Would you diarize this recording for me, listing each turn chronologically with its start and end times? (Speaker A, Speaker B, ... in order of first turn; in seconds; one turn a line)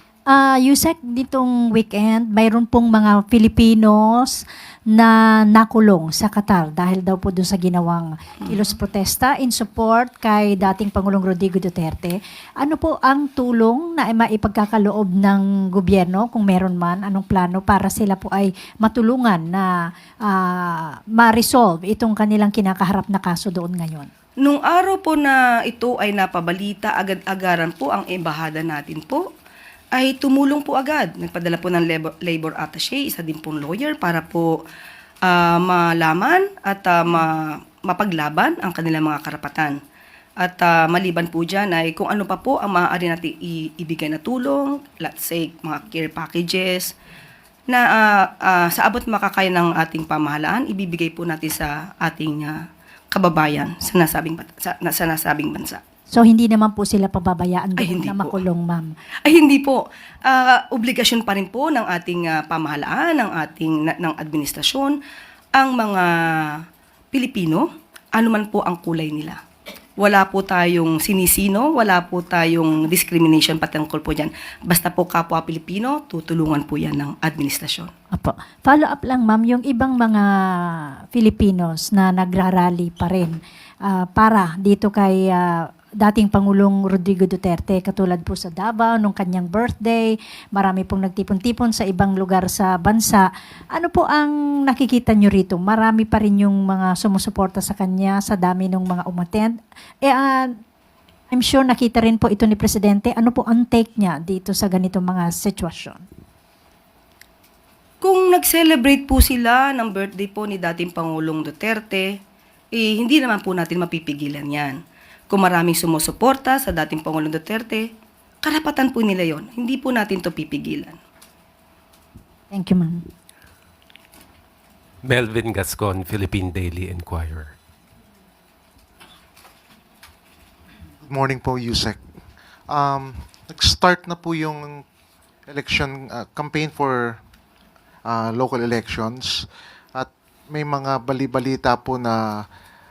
Speaker A: 0.3-19.7
Speaker A: 20.3-24.1
Speaker B: 24.4-29.3
Speaker B: 29.9-34.6
Speaker B: 35.2-39.8
Speaker B: 40.4-46.9
Speaker B: 47.7-52.6
Speaker B: 53.1-55.8
Speaker A: 56.1-58.9
Speaker B: 57.8-58.4
Speaker B: 59.2-65.0
Speaker B: 65.5-66.6
Speaker B: 67.1-69.4
Speaker B: 70.0-77.9
Speaker A: 78.1-100.6
Speaker A: 101.3-106.0
Speaker B: 108.0-112.2
Speaker B: 112.7-117.9
Speaker B: 118.4-121.0
Speaker A: 122.5-123.1
Speaker C: 125.0-127.5
Speaker D: 131.1-132.0
Speaker D: 132.7-134.8
Speaker D: 135.5-137.2
Speaker D: 138.1-142.4